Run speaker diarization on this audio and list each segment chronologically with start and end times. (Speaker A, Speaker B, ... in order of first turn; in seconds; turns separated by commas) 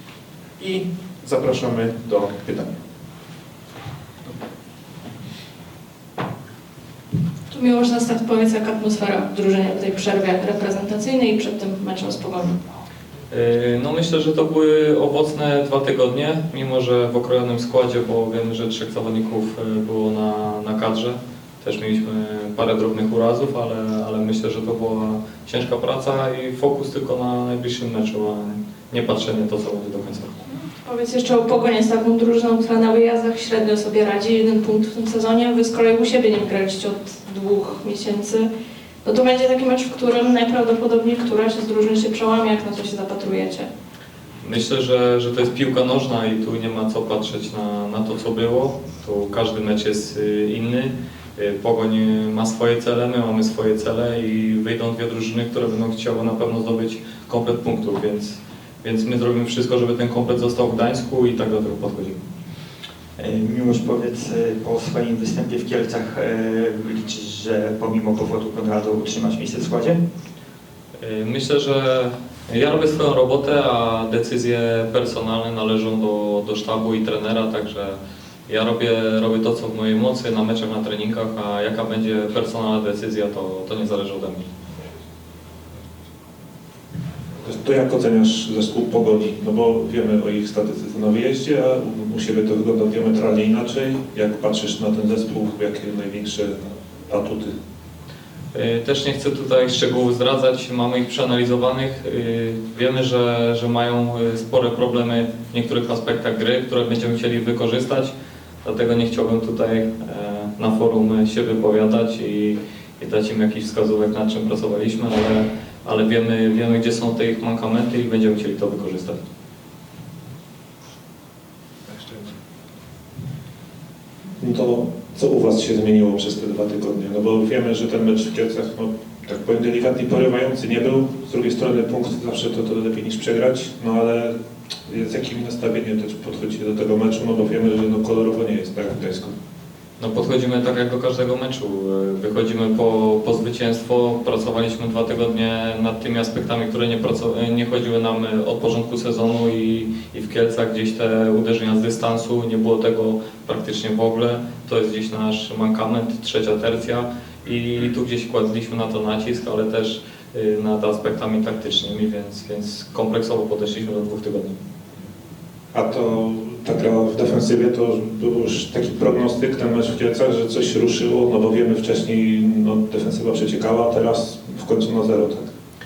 Speaker A: 0.6-2.7, Speaker B: 7.5-12.6, Speaker C: 13.3-30.4, Speaker B: 30.6-38.5, Speaker B: 39.0-43.7, Speaker C: 44.4-62.2, Speaker D: 63.2-70.0, Speaker C: 71.0-84.5, Speaker E: 87.4-97.5, Speaker C: 98.5-119.2, Speaker E: 124.4-134.3, Speaker E: 134.9-139.3, Speaker C: 140.0-164.6, Speaker E: 165.7-175.5